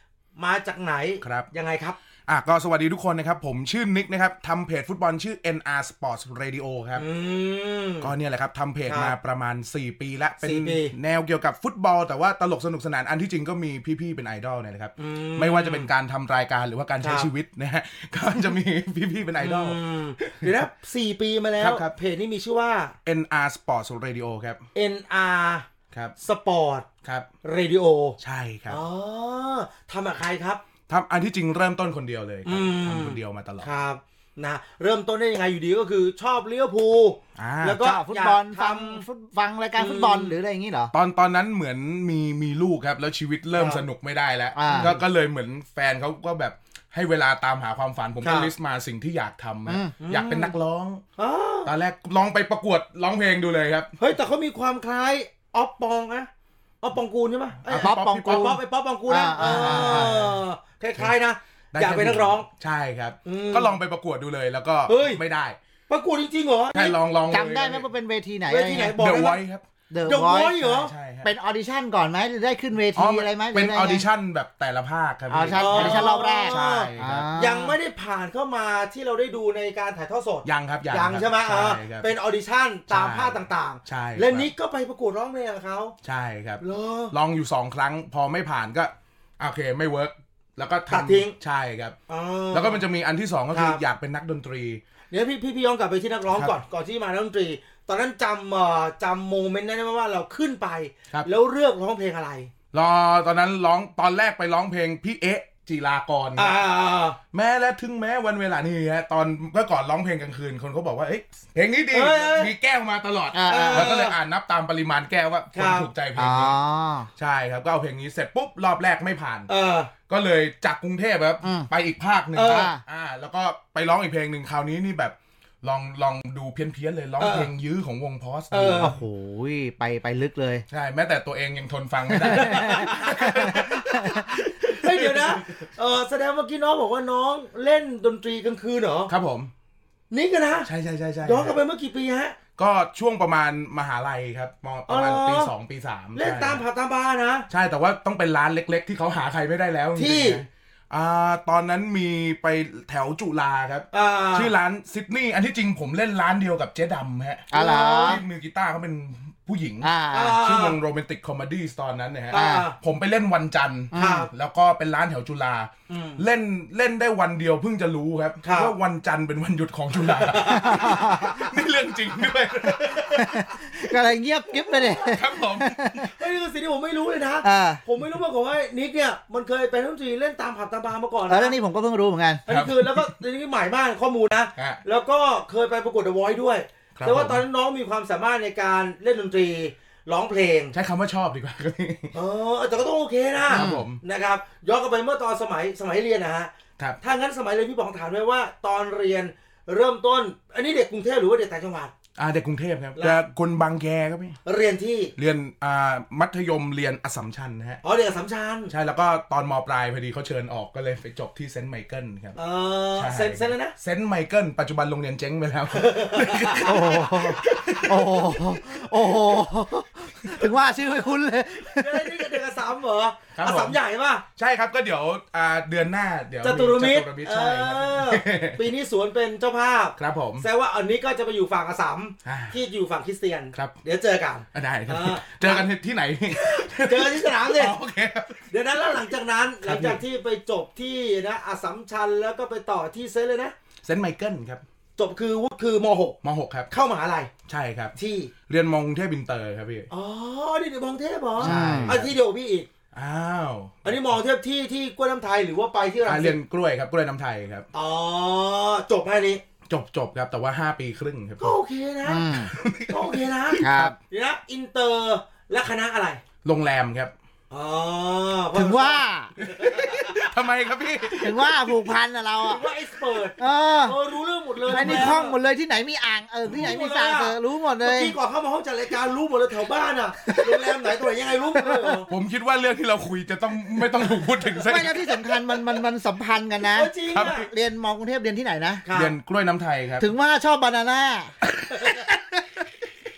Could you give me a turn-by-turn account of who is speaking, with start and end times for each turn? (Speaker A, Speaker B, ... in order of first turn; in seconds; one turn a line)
Speaker A: 0.3-2.0
Speaker B: 1.2-1.5
Speaker B: 2.3-7.0
Speaker A: 7.0-8.1
Speaker B: 8.0-20.5
Speaker A: 8.8-9.1
Speaker A: 10.4-10.9
Speaker A: 15.0-15.9
Speaker A: 17.0-17.3
Speaker A: 19.4-22.9
Speaker B: 21.6-21.9
Speaker B: 23.0-24.6
Speaker A: 24.7-25.6
Speaker A: 26.2-26.9
Speaker A: 27.4-28.2
Speaker B: 28.2-28.8
Speaker A: 28.7-30.6
Speaker B: 30.9-33.7
Speaker A: 32.5-39.0
Speaker B: 37.4-37.8
Speaker C: 37.8-40.9
Speaker A: 39.8-40.4
Speaker B: 40.9-51.0
Speaker A: 43.5-43.8
Speaker C: 44.5-45.0
Speaker A: 44.7-45.0
Speaker A: 48.2-48.5
Speaker C: 49.7-49.9
Speaker A: 50.0-50.5
Speaker A: 51.2-51.7
Speaker B: 51.6-53.9
Speaker A: 54.0-56.3
Speaker A: 56.8-62.5
Speaker B: 57.6-58.6
Speaker C: 57.7-60.3
Speaker B: 59.4-60.2
Speaker B: 61.7-65.6
Speaker A: 63.2-63.8
Speaker A: 64.9-65.2
Speaker A: 65.9-67.0
Speaker B: 66.7-67.9
Speaker C: 67.3-69.0
Speaker A: 68.5-69.4
Speaker B: 69.0-69.6
Speaker C: 69.9-74.0
Speaker A: 70.0-70.9
Speaker B: 70.7-71.3
Speaker B: 72.9-77.3
Speaker C: 75.3-77.8
Speaker A: 75.5-85.9
Speaker B: 80.4-82.1
Speaker B: 82.9-84.5
Speaker B: 86.0-92.0
Speaker A: 86.6-87.1
Speaker A: 90.9-91.3
Speaker A: 92.1-92.8
Speaker B: 92.5-94.8
Speaker A: 93.5-93.8
Speaker A: 95.1-102.5
Speaker B: 102.7-106.6
Speaker A: 106.3-107.2
Speaker B: 107.3-116.6
Speaker A: 111.9-112.5
Speaker C: 113.3-113.9
Speaker A: 113.4-114.2
Speaker A: 115.5-115.9
Speaker C: 116.2-117.1
Speaker B: 117.2-119.5
Speaker A: 119.5-119.9
Speaker B: 120.1-129.0
Speaker C: 121.4-121.7
Speaker A: 122.3-122.7
Speaker C: 122.4-122.8
Speaker A: 127.2-127.5
Speaker A: 128.5-129.0
Speaker C: 128.5-130.6
Speaker B: 130.7-135.7
Speaker C: 132.1-134.3
Speaker A: 132.3-133.6
Speaker A: 134.7-139.1
Speaker B: 139.1-139.5
Speaker A: 140.1-140.7
Speaker B: 140.6-141.6
Speaker A: 141.2-142.3
Speaker B: 142.6-146.6
Speaker A: 144.9-145.5
Speaker A: 146.1-147.4
Speaker B: 147.5-173.7
Speaker A: 149.9-150.4
Speaker A: 153.9-154.5
Speaker C: 157.5-158.2
Speaker A: 157.5-158.2
Speaker C: 159.8-160.4
Speaker A: 160.1-160.8
Speaker A: 162.3-162.7
Speaker C: 162.3-162.7
Speaker C: 163.9-164.3
Speaker A: 163.9-164.3
Speaker A: 165.9-166.2
Speaker A: 168.4-168.7
Speaker A: 170.0-170.9
Speaker C: 170.5-171.5
Speaker C: 173.1-176.1
Speaker B: 175.0-176.1
Speaker A: 176.1-181.6
Speaker C: 177.4-177.8
Speaker C: 181.3-182.4
Speaker A: 182.5-190.7
Speaker B: 182.5-183.2
Speaker B: 186.9-187.4
Speaker B: 190.7-192.1
Speaker A: 192.1-201.9
Speaker B: 193.5-194.0
Speaker C: 193.5-193.8
Speaker B: 202.2-204.4
Speaker A: 202.9-203.2
Speaker A: 204.4-205.1
Speaker B: 205.2-207.8
Speaker A: 207.8-208.7
Speaker B: 208.7-212.4
Speaker A: 212.3-213.7
Speaker B: 212.9-218.3
Speaker A: 215.7-216.8
Speaker C: 216.6-222.4
Speaker A: 221.6-224.2
Speaker B: 223.3-223.8
Speaker B: 224.3-228.7
Speaker A: 226.4-235.7
Speaker B: 230.0-230.5
Speaker B: 232.2-232.6
Speaker B: 233.5-233.8
Speaker B: 234.5-238.6
Speaker A: 236.3-237.8
Speaker A: 238.5-243.5
Speaker B: 239.6-240.0
Speaker B: 243.8-244.6
Speaker A: 245.0-246.2
Speaker B: 246.2-246.7
Speaker A: 246.7-247.3
Speaker B: 247.5-248.0
Speaker A: 247.9-248.3
Speaker B: 248.5-249.9
Speaker A: 249.9-252.7
Speaker C: 251.4-252.0
Speaker B: 251.4-252.1
Speaker B: 252.9-253.9
Speaker A: 253.8-256.4
Speaker B: 256.1-257.7
Speaker A: 257.7-259.4
Speaker B: 259.7-261.6
Speaker A: 261.4-266.2
Speaker C: 262.1-262.5
Speaker B: 262.3-264.0
Speaker C: 263.6-263.9
Speaker B: 266.4-267.1
Speaker A: 267.5-270.2
Speaker C: 268.5-269.3
Speaker B: 269.4-271.9
Speaker C: 271.2-272.6
Speaker A: 272.4-275.4
Speaker C: 273.4-274.0
Speaker C: 274.6-278.1
Speaker B: 274.7-275.1
Speaker A: 276.4-282.1
Speaker C: 280.2-280.9
Speaker C: 281.5-282.0
Speaker B: 282.1-285.0
Speaker C: 284.6-288.8
Speaker A: 286.7-287.5
Speaker B: 287.1-287.5
Speaker A: 288.8-289.1
Speaker B: 288.9-290.1
Speaker C: 290.0-291.3
Speaker B: 291.4-292.4
Speaker A: 291.7-292.1